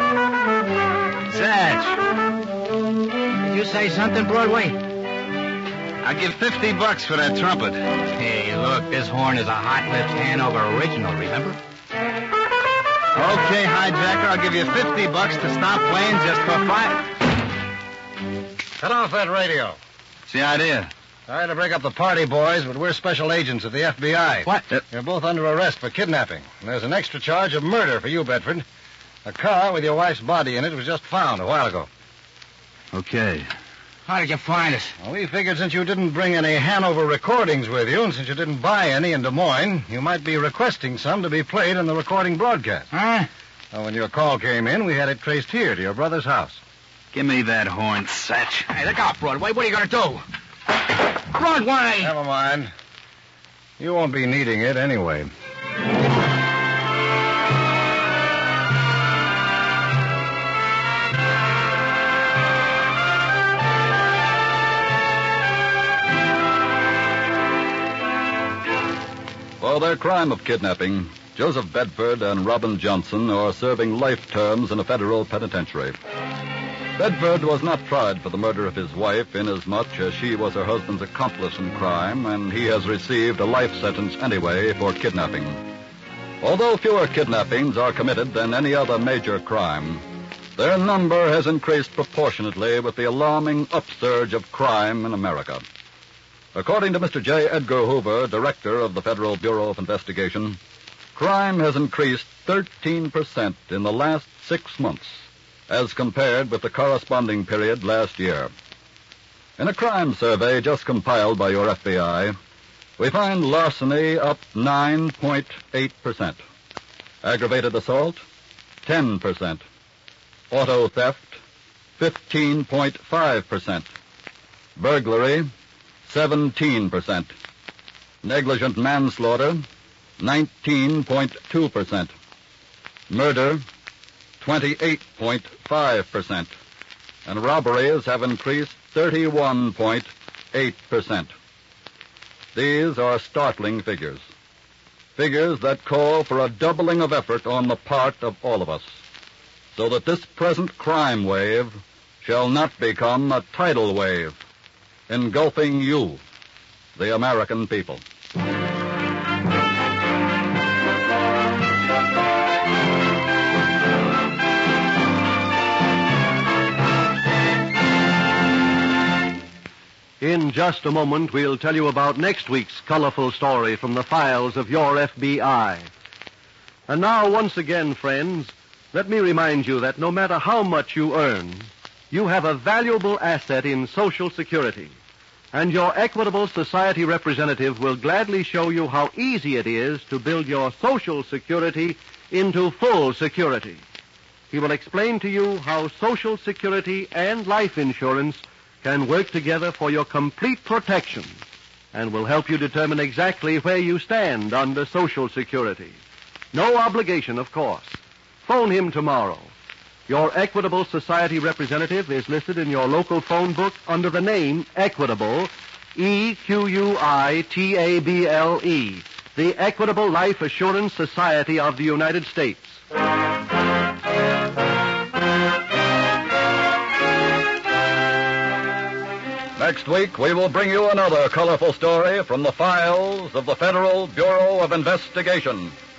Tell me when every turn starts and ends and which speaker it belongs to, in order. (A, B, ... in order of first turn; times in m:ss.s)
0:01.3-0:02.0 A
0:03.4-0:04.8 B
0:06.0-0:07.9 A
0:08.1-0:11.6 B
0:13.2-0:17.1 A
0:18.8-0:19.8 C
0:20.3-0:20.9 A
0:21.3-0:28.6 C
0:29.2-0:31.9 C
0:32.9-0:33.5 A
0:34.0-0:34.9 B
0:35.0-0:42.9 C
0:42.9-0:43.3 B
0:43.7-0:46.6 C
0:47.1-0:48.7 A
0:48.7-0:50.2 B
0:51.3-0:52.1 B
0:52.0-0:52.7 C
0:53.8-0:55.3 C
1:09.6-1:16.0 D
1:17.0-1:25.6 D
1:26.4-1:30.0 D
1:30.6-1:35.6 D
1:36.5-1:40.6 D
1:41.1-1:48.5 D
1:49.6-1:52.4 D
1:53.0-1:56.4 D
1:57.2-1:58.2 D
1:58.8-1:59.6 D
2:00.5-2:01.4 D
2:02.0-2:03.9 D
2:04.8-2:05.5 D
2:06.1-2:07.3 D
2:08.2-2:09.7 D
2:10.2-2:12.1 D
2:13.1-2:13.6 D
2:14.4-2:16.5 D
2:17.2-2:21.3 D
2:22.5-2:24.2 D
2:25.2-2:29.0 D
2:29.7-2:34.4 D
2:35.1-2:36.2 D
2:37.0-2:38.0 D
2:50.2-2:55.9 E
2:56.9-3:04.9 E
3:05.5-3:13.8 E
3:14.5-3:21.4 E
3:21.9-3:26.0 E
3:26.5-3:29.5 E
3:30.1-3:42.8 E
3:49.6-3:55.7 D